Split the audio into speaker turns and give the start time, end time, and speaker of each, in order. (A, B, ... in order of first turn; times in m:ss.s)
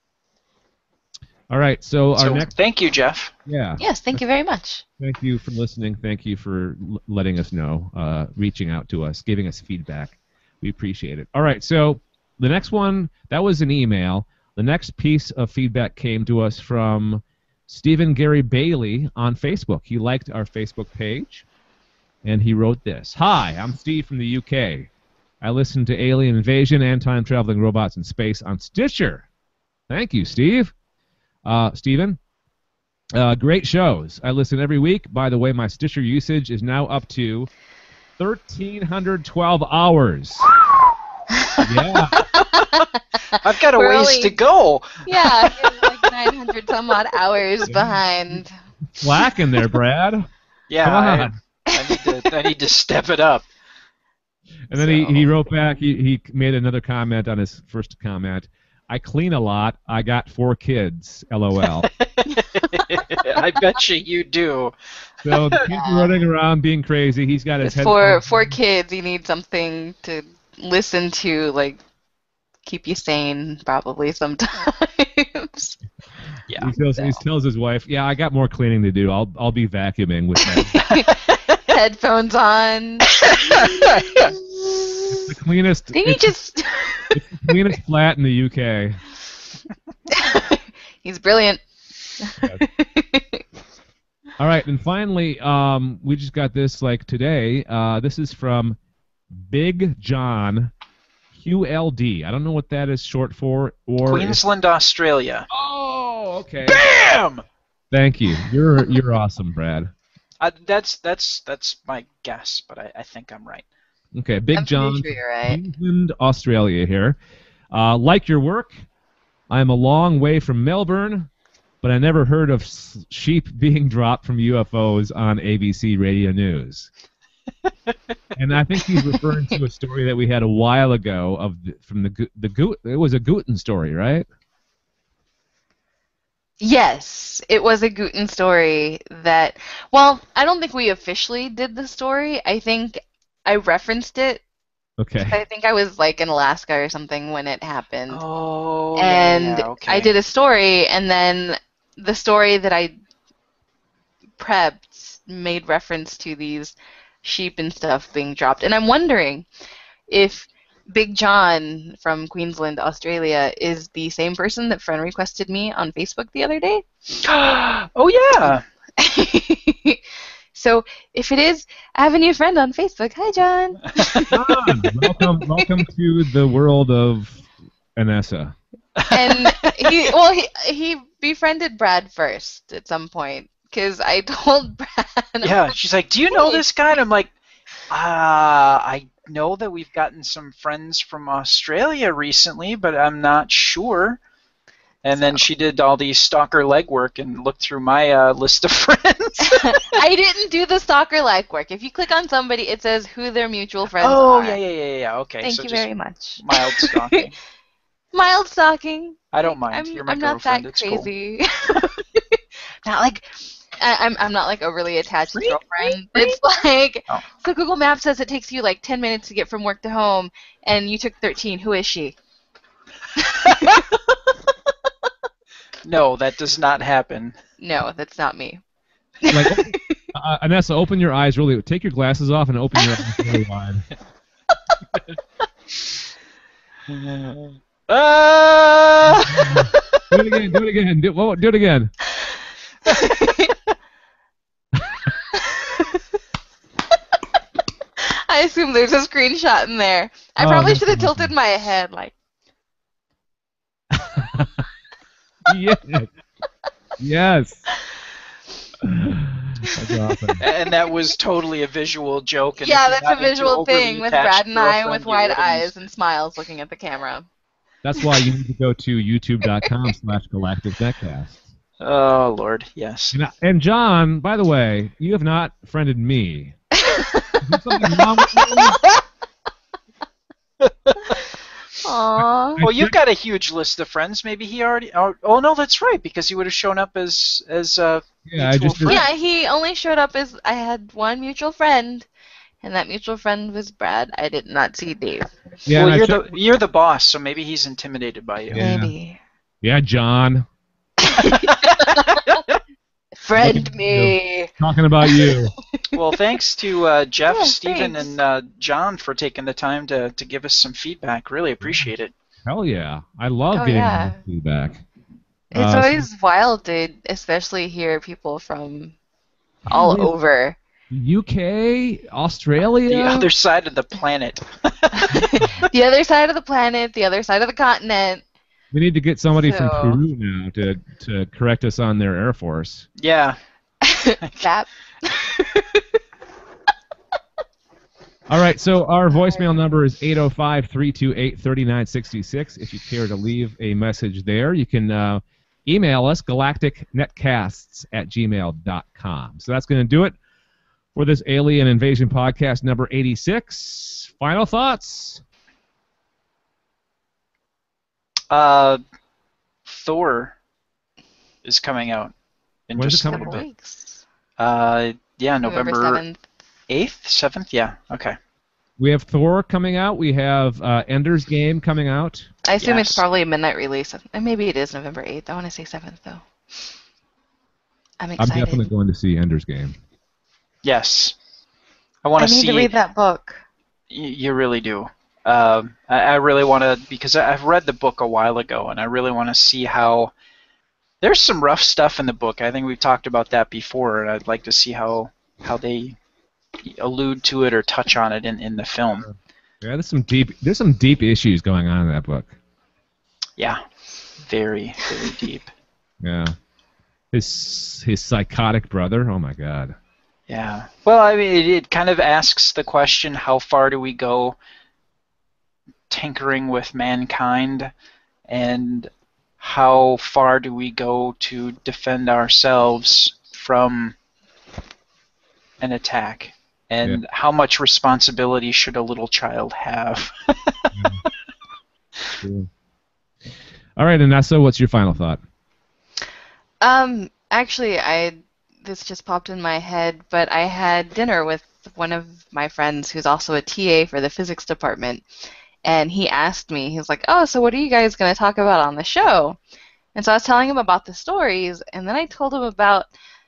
0:01.5-0:02.5 A
0:02.2-0:03.3 B
0:03.5-0:04.2 A
0:03.8-0:04.8 C
0:05.0-0:21.5 A
0:22.2-0:24.9 A
0:25.4-0:29.3 A
0:29.9-0:30.7 A
0:31.4-0:32.2 A
0:33.2-0:37.5 A
0:38.2-0:40.5 A
0:41.3-0:44.4 C
0:41.6-0:42.2 A
0:42.4-0:42.7 B
0:43.3-0:46.0 B
0:45.0-0:48.5 C
0:47.7-0:48.0 A
0:48.9-0:50.3 A
0:50.7-0:53.5 B
0:50.8-0:51.4 A
0:51.7-0:52.3 C
0:54.7-1:01.9 A
0:54.8-0:55.3 B
1:02.0-1:03.6 C
1:02.6-1:04.7 B
1:05.2-1:08.5 A
1:05.3-1:05.6 B
1:05.7-1:06.2 C
1:07.6-1:11.8 C
1:12.6-1:15.8 C
1:16.6-1:20.8 A
1:20.4-1:21.1 C
1:20.9-1:21.6 B
1:21.7-1:25.3 C
1:23.1-1:24.3 B
1:25.1-1:26.3 A
1:25.9-1:27.8 C
1:27.1-1:29.0 A
1:30.1-1:31.6 C
1:32.2-1:33.4 C
1:34.4-1:38.8 A
1:39.3-1:40.7 A
1:41.4-1:44.4 A
1:44.1-1:45.5 B
1:45.5-1:46.9 A
1:46.7-1:47.4 B
1:47.9-1:49.9 A
1:50.4-1:53.7 B
1:54.2-1:57.2 A
1:54.6-1:55.6 C
1:57.7-1:58.8 A
1:59.5-2:01.3 A
2:01.8-2:06.9 A
2:08.4-2:14.3 A
2:09.0-2:09.5 C
2:16.6-2:24.4 C
2:25.0-2:25.4 A
2:25.2-2:28.2 C
2:28.1-2:30.1 B
2:29.0-2:33.0 C
2:34.4-2:39.5 C
2:40.1-2:46.9 C
2:47.2-2:48.6 B
2:49.0-2:50.0 C
2:50.5-2:55.7 C
2:54.0-2:54.2 B
2:54.3-2:58.6 A
2:59.0-2:59.9 B
2:59.1-3:05.8 C
3:05.4-3:07.3 B
3:06.3-3:06.6 C
3:07.9-3:14.2 B
3:15.0-3:20.0 B
3:15.1-3:15.5 C
3:19.4-3:24.6 C
3:24.0-3:27.3 B
3:25.4-3:27.3 C
3:28.1-3:42.2 C
3:29.3-3:31.1 B
3:35.3-3:36.4 B
3:43.2-3:44.5 C
3:45.9-3:47.4 B
3:47.6-3:48.6 C
3:49.2-3:50.0 C
3:49.3-3:53.8 A
3:56.9-3:59.8 B
3:59.1-4:01.9 A
4:02.2-4:03.6 C
4:05.3-4:06.2 C
4:08.0-4:12.2 C
4:10.4-4:11.3 A
4:13.9-4:14.7 A
4:15.5-4:16.1 A
4:17.0-4:17.7 A
4:18.8-4:20.4 A
4:19.7-4:20.8 C
4:20.4-4:25.8 B
4:22.6-4:27.3 C
4:27.8-4:31.4 A
4:28.0-4:28.3 C
4:31.8-4:33.2 B
4:33.1-4:36.6 A
4:36.8-4:39.0 C
4:37.4-4:38.8 A
4:40.6-4:41.2 B
4:41.8-4:42.6 C
4:42.6-4:43.0 A
4:42.6-4:49.1 B
4:48.3-4:49.0 A
4:48.8-4:52.1 C
4:52.6-4:55.3 C
4:55.7-4:56.3 A
4:55.8-4:58.7 B
4:58.5-4:58.9 A
4:58.6-4:59.2 C
4:59.6-5:00.5 A
5:01.0-5:02.4 C
5:01.6-5:02.4 B
5:03.2-5:06.0 C
5:03.4-5:05.5 A
5:05.9-5:12.1 B
5:07.3-5:08.1 C
5:11.6-5:11.9 A
5:12.4-5:14.8 A
5:13.5-5:14.2 C
5:15.5-5:16.1 A
5:15.5-5:19.0 C
5:19.7-5:20.1 A
5:19.7-5:20.6 C
5:20.9-5:23.3 A
5:22.9-5:25.7 B
5:25.0-5:28.2 C
5:28.7-5:32.9 A
5:29.4-5:30.0 C
5:33.0-5:33.4 B
5:33.8-5:36.0 C
5:34.2-5:34.5 B
5:38.3-5:50.2 A
5:39.2-5:39.4 C
5:50.9-5:55.2 A
5:58.3-5:58.8 B
5:59.7-6:00.4 B
6:01.4-6:02.1 B
6:02.7-6:03.4 B
6:02.8-6:03.4 A
6:03.1-6:04.0 C
6:04.4-6:06.0 B
6:05.4-6:06.2 C
6:06.7-6:08.2 B
6:08.8-6:12.3 A
6:12.4-6:16.2 C
6:12.6-6:13.0 B
6:18.0-6:18.6 C
6:18.2-6:19.8 A
6:20.6-6:21.2 B
6:22.0-6:22.7 B
6:22.2-6:23.4 C
6:23.9-6:30.1 B
6:31.0-6:36.0 B
6:36.6-6:39.1 B
6:39.0-6:42.3 A
6:44.2-6:45.5 B
6:46.0-6:46.4 A
6:47.1-6:49.8 A
6:50.3-6:54.4 B
6:55.9-6:57.7 B
6:58.3-7:04.0 B
7:05.6-7:10.6 B
7:10.7-7:11.0 A
7:12.2-7:12.5 A
7:13.8-7:15.2 A
7:16.6-7:25.1 C
7:25.6-7:29.4 C
7:30.0-7:32.9 C